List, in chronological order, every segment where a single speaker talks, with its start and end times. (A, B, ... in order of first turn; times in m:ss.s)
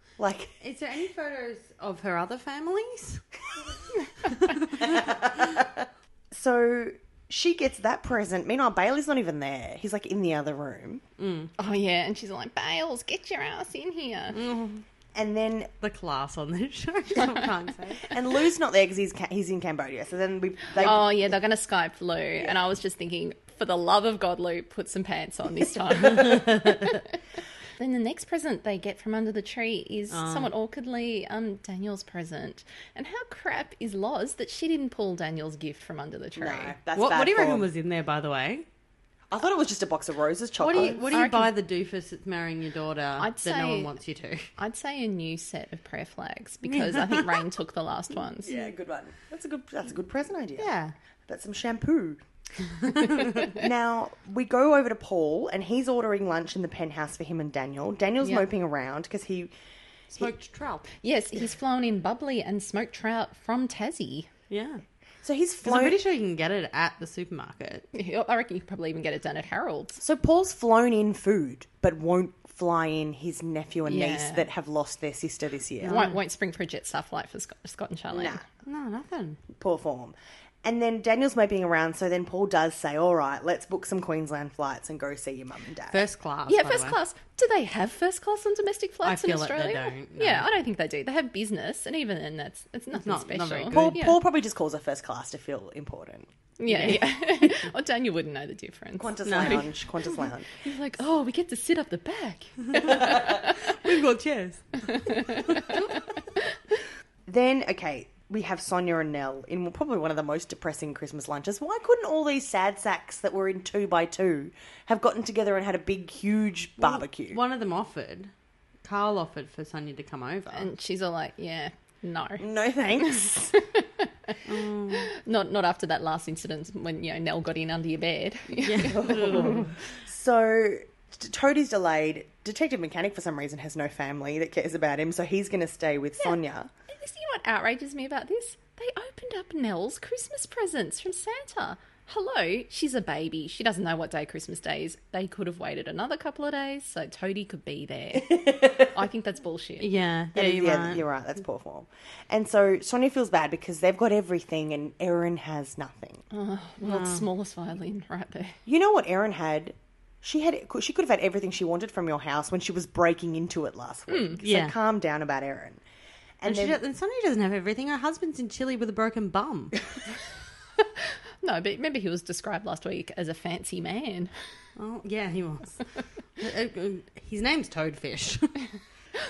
0:00.2-0:00.5 A
0:00.6-0:03.2 B
0:04.2-0:05.0 B
0:04.8-0:11.0 A
0:11.2-0:11.5 B
0:11.6-0:14.4 C
0:14.3-0:14.8 B
0:15.1-0:15.7 A
0:15.8-0:18.2 B
0:18.1-0:21.2 A
0:20.8-0:27.0 C
0:26.1-0:26.7 B
0:27.8-0:36.8 C
0:30.1-0:30.5 B
0:36.3-0:37.7 A
0:36.9-0:38.6 B
0:39.3-0:41.1 A
0:40.6-0:44.5 B
0:40.8-0:41.5 C
0:43.2-0:43.9 C
0:44.6-0:48.6 C
0:46.7-0:47.4 B
0:48.4-0:50.7 A
0:50.6-0:50.9 B
0:51.3-0:52.2 A
0:52.8-0:59.5 A
1:00.1-1:00.8 B
1:01.0-1:04.3 C
1:04.5-1:04.8 B
1:05.2-1:06.0 A
1:05.6-1:07.8 B
1:07.9-1:10.0 C
1:10.0-1:16.0 A
1:13.8-1:14.5 C
1:15.8-1:16.2 B
1:15.8-1:18.4 C
1:18.1-1:18.4 A
1:18.6-1:19.4 B
1:19.5-1:26.0 A
1:25.9-1:27.0 B
1:26.5-1:34.2 C
1:29.0-1:30.5 B
1:33.0-1:34.0 B
1:33.7-1:36.3 A
1:36.6-1:43.6 C
1:36.7-1:37.5 B
1:39.0-1:40.5 A
1:39.2-1:39.7 B
1:42.7-1:45.8 B
1:44.9-1:46.5 C
1:47.3-1:57.4 A
1:56.8-1:58.3 B
1:58.8-2:00.7 B
2:00.5-2:02.4 C
2:02.4-2:03.5 A
2:03.0-2:04.4 C
2:04.4-2:05.1 B
2:04.9-2:09.6 C
2:08.6-2:09.7 B
2:08.8-2:16.7 A
2:16.9-2:29.9 C
2:28.3-2:28.8 A
2:29.8-2:31.0 B
2:30.3-2:36.2 A
2:36.3-2:38.6 C
2:36.8-2:37.2 B
2:38.6-2:45.8 A
2:44.1-2:44.4 C
2:44.4-2:44.8 B
2:46.4-2:46.8 A
2:46.4-2:49.9 B
2:51.0-2:54.3 C
2:54.8-2:55.8 B
2:56.4-2:58.7 B